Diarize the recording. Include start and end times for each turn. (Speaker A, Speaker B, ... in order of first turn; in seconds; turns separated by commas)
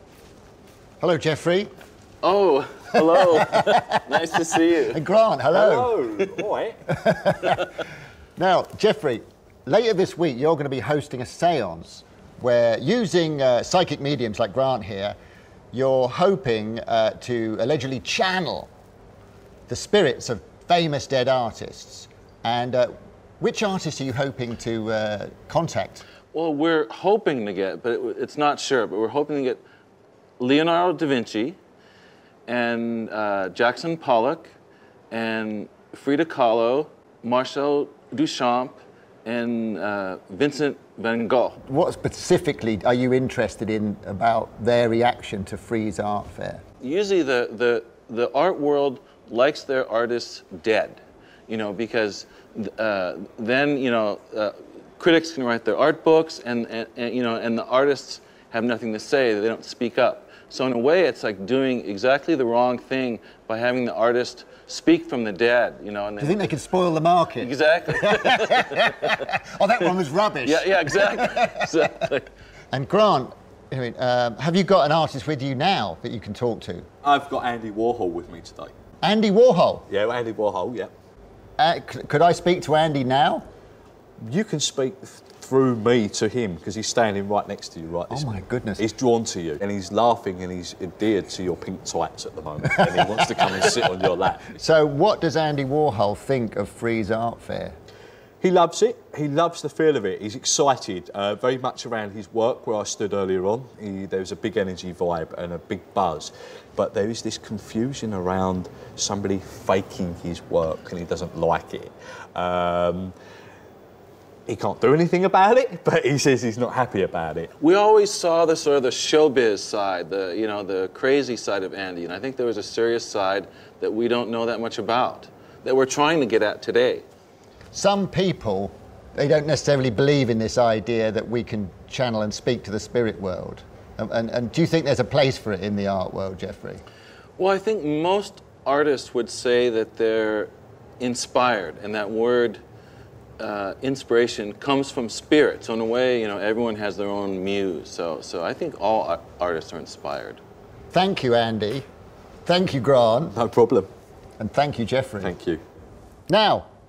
Speaker A: 1.0-1.7, Speaker B: 2.2-5.0, Speaker A: 3.3-4.0, Speaker A: 4.8-5.9, Speaker C: 5.5-6.8, Speaker A: 6.9-7.6, Speaker A: 8.4-15.1, Speaker A: 15.7-18.7, Speaker A: 19.7-26.0, Speaker B: 26.3-29.6, Speaker B: 30.4-31.6, Speaker B: 32.5-34.5, Speaker B: 35.1-41.6, Speaker A: 41.6-46.6, Speaker B: 46.8-66.5, Speaker A: 66.2-71.6, Speaker B: 67.4-69.2, Speaker B: 70.4-72.3, Speaker A: 72.7-76.9, Speaker C: 77.0-78.7, Speaker A: 79.0-79.8, Speaker C: 79.9-80.9, Speaker A: 81.6-83.4, Speaker C: 84.2-94.6, Speaker A: 88.1-88.8, Speaker A: 92.8-93.5, Speaker A: 94.5-97.8, Speaker C: 98.4-113.1, Speaker C: 114.5-117.5, Speaker B: 117.6-127.0, Speaker A: 127.7-136.8, Speaker B: 137.4-142.6, Speaker B: 143.4-150.4, Speaker A: 150.9-151.8, Speaker A: 152.4-153.3, Speaker C: 153.3-153.9, Speaker A: 154.4-155.3, Speaker C: 155.2-155.6, Speaker A: 156.3-156.7